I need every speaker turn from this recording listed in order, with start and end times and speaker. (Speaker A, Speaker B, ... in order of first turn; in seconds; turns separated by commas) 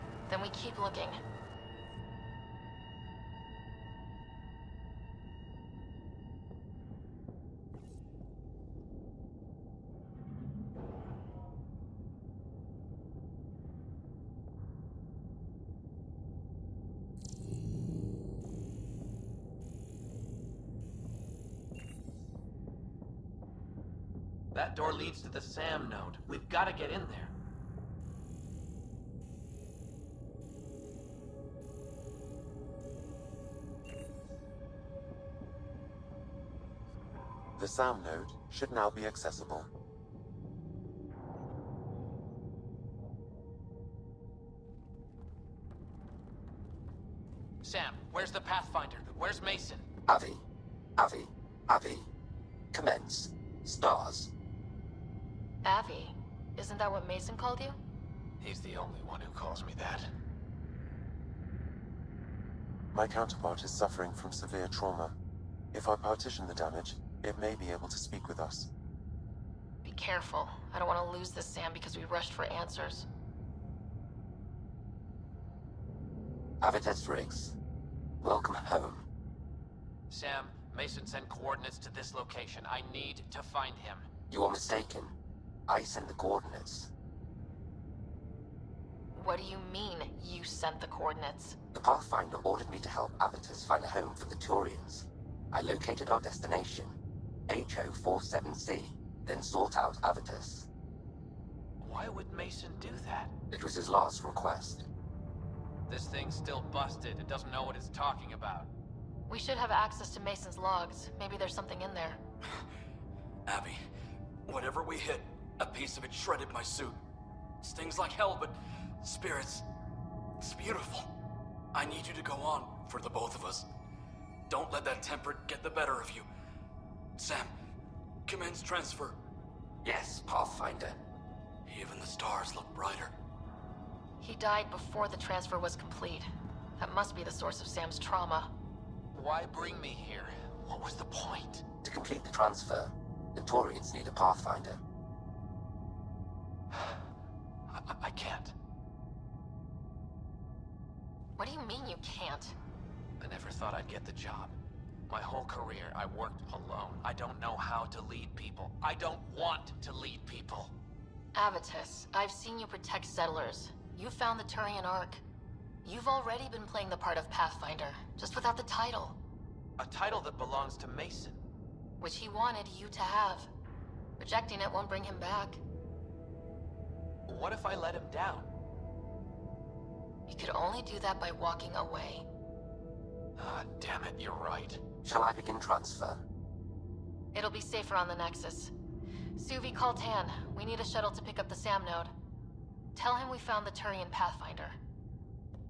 Speaker A: 0.3-1.2, Speaker B: 24.5-27.3, Speaker C: 37.6-39.7, Speaker B: 47.6-49.8, Speaker D: 50.1-50.4, Speaker D: 51.0-52.0, Speaker D: 52.7-54.3, Speaker A: 55.6-57.8, Speaker B: 58.4-60.1, Speaker C: 62.9-65.1, Speaker C: 65.7-68.7, Speaker A: 69.8-73.1, Speaker D: 76.6-77.5, Speaker D: 78.2-79.0, Speaker B: 80.1-84.1, Speaker D: 84.3-85.1, Speaker D: 85.7-86.9, Speaker A: 89.1-91.6, Speaker D: 91.7-97.0, Speaker D: 97.5-100.7, Speaker B: 101.8-103.3, Speaker D: 103.5-104.9, Speaker B: 105.9-108.7, Speaker A: 109.3-112.2, Speaker E: 113.5-113.8, Speaker E: 114.5-117.0, Speaker E: 117.6-119.7, Speaker E: 120.4-121.1, Speaker E: 121.7-123.7, Speaker E: 124.5-126.3, Speaker E: 127.2-127.5, Speaker E: 128.3-129.2, Speaker D: 129.8-131.0, Speaker E: 131.7-133.1, Speaker A: 134.2-136.3, Speaker A: 136.8-138.5, Speaker B: 139.1-141.6, Speaker D: 141.8-144.8, Speaker B: 147.7-148.5, Speaker A: 151.4-152.6, Speaker B: 153.2-154.5, Speaker B: 155.1-160.7, Speaker A: 161.3-165.2, Speaker A: 165.8-169.2, Speaker B: 169.8-171.4, Speaker A: 172.0-173.5, Speaker A: 174.2-175.6, Speaker B: 177.3-178.5, Speaker A: 180.3-182.3, Speaker B: 183.4-184.8, Speaker D: 185.0-186.2, Speaker A: 187.3-188.7, Speaker A: 189.4-192.1, Speaker A: 192.9-194.8